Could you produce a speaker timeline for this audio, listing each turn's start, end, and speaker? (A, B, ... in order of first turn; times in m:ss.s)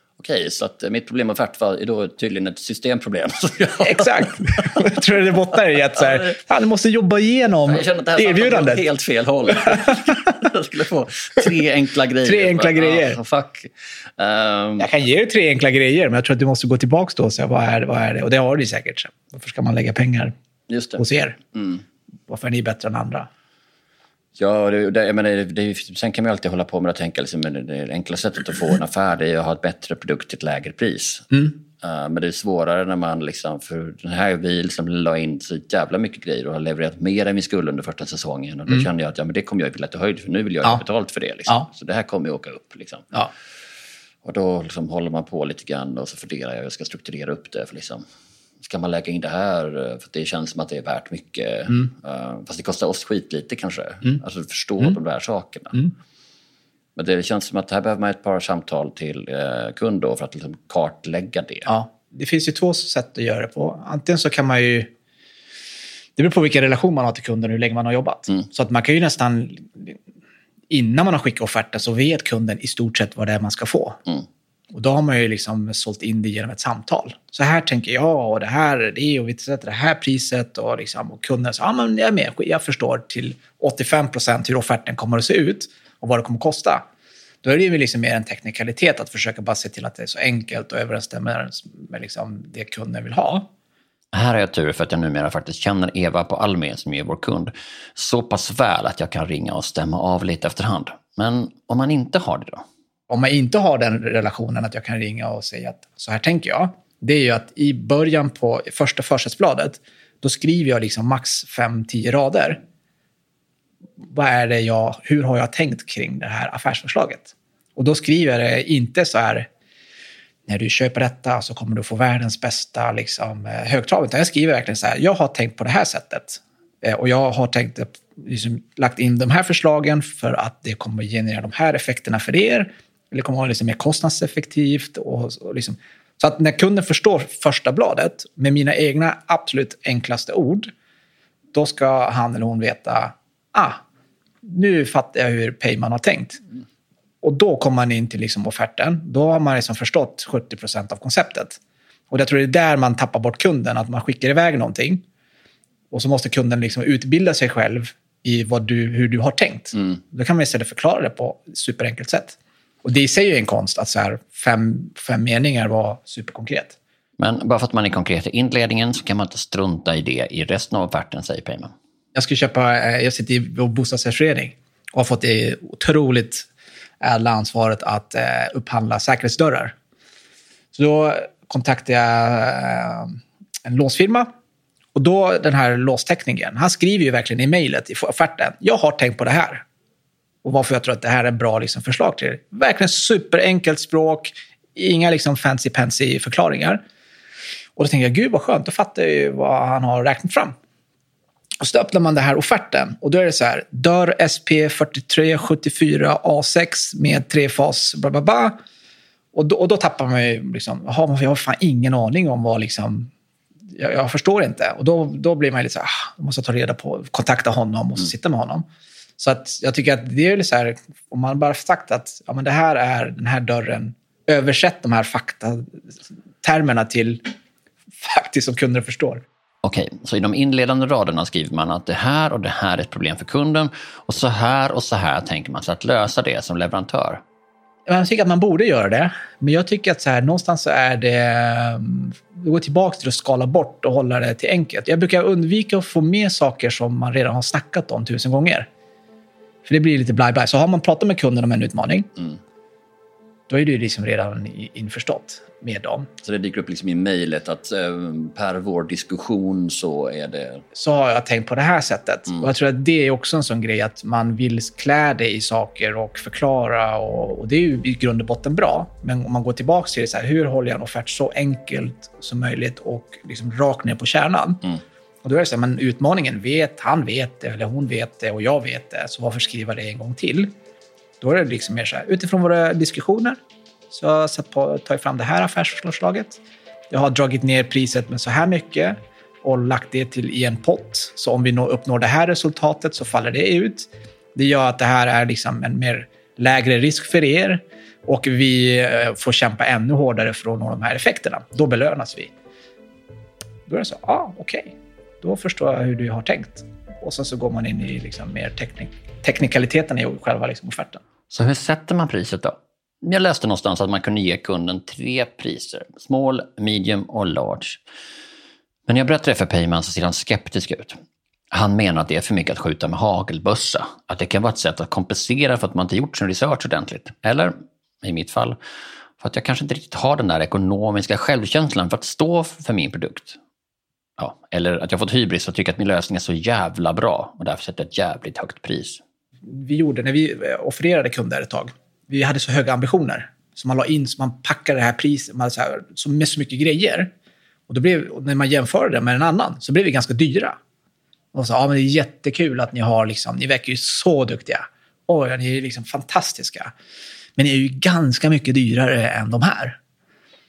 0:00.2-0:04.9 A
0:03.8-0:08.8 B
0:07.7-0:14.9 A
0:12.2-0:13.2 B
0:14.8-0:20.3 B
0:20.7-0:21.0 A
0:21.0-0:21.4 B
0:21.5-0:21.8 A
0:22.3-0:23.3 B
0:24.4-0:31.3 A
0:31.8-0:43.1 A
0:44.2-0:48.0 A
0:48.6-0:55.8 A
0:57.0-1:01.7 A
1:01.6-1:04.9 B
1:06.2-1:10.0 B
1:10.7-1:14.0 B
1:14.7-1:26.8 B
1:27.4-1:33.5 B
1:34.1-1:42.6 A
1:43.1-1:52.6 B
1:54.0-1:59.5 B
2:00.4-2:20.7 B
2:21.5-2:23.8 B
2:24.4-2:26.4 B
2:27.2-2:31.6 B
2:32.1-2:35.0 B
2:35.9-2:46.8 B
2:47.2-2:51.7 A
2:52.1-2:56.5 B
2:57.0-2:59.7 B
3:00.7-3:04.3 B
3:04.9-3:09.6 B
3:10.4-3:16.8 B
3:17.8-3:20.5 B
3:21.6-3:28.6 B
3:29.3-3:33.1 B
3:33.7-3:38.6 B
3:39.2-3:45.8 B
3:46.4-3:47.2 B
3:48.0-3:49.2 B
3:49.6-3:57.2 A
3:57.9-4:08.7 B
4:09.6-4:12.1 B
4:13.5-4:16.1 B
4:16.2-4:20.6 A
4:20.7-4:34.6 B
4:35.2-4:40.5 B
4:41.2-4:43.4 B
4:43.9-5:02.3 B
5:03.7-5:11.0 B
5:11.3-5:17.8 A
5:18.9-5:21.0 A
5:21.5-5:28.6 A
5:29.2-5:33.4 A
5:34.2-5:39.0 A
5:39.4-5:47.1 B
5:47.7-5:50.6 B
5:51.3-5:56.7 B
5:57.4-5:59.8 B